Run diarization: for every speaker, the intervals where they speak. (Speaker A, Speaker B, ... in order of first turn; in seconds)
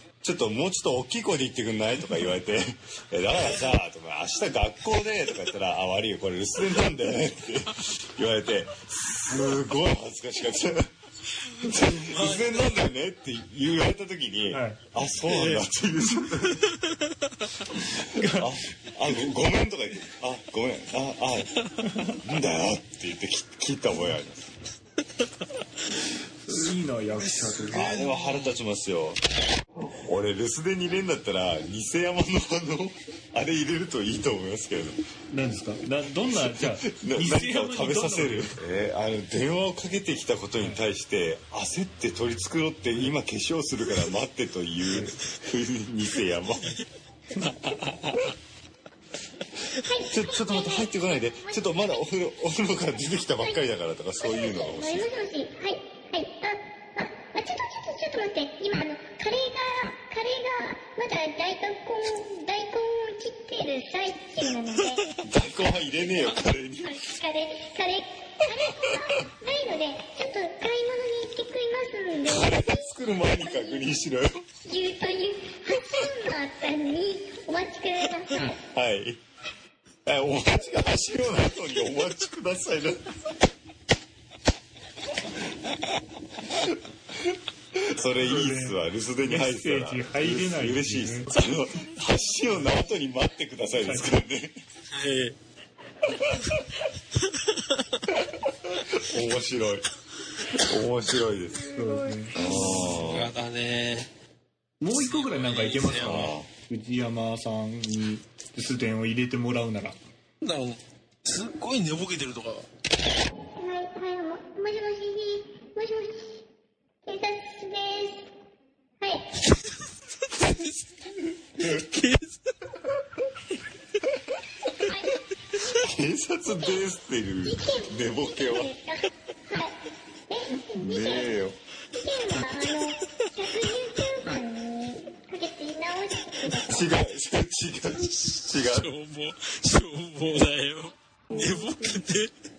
Speaker A: 0.2-10.9, 11.6-16.7, 18.3-21.6, 22.2-24.5, 27.7-29.2, 30.1-35.0, 36.3-46.8, 50.1-55.1, 65.2-67.0, 68.7-69.2, 72.3-74.4, 78.7-79.2, 80.0-83.1, 87.2-94.6, 96.1-96.5, 98.2-99.9, 100.5-101.7, 102.3-103.3, 106.0-106.5, 125.8-128.7, 130.8-131.6, 136.7-138.9
Speaker B: 11.7-12.8, 15.3-15.7, 16.2-17.0, 27.1-28.6, 94.9-95.4, 102.5-104.1, 104.9-106.3, 110.4-112.7, 120.4-120.8, 121.6-122.4, 138.7-142.3
Speaker C: 14.5-14.8, 18.0-18.5, 21.8-22.2, 26.5-27.9, 35.3-38.6, 47.4-47.9, 88.2-91.3, 93.8-94.2, 101.7-103.0, 104.8-110.0
Speaker D: 49.8-52.1, 53.4-53.6, 54.2-65.2, 66.8-72.9, 73.5-73.8, 74.7-78.6, 101.8-102.2, 113.4-116.4, 117.0-118.3, 119.0-119.3, 124.8-125.2, 126.5-126.8, 127.5-131.4, 131.9-136.9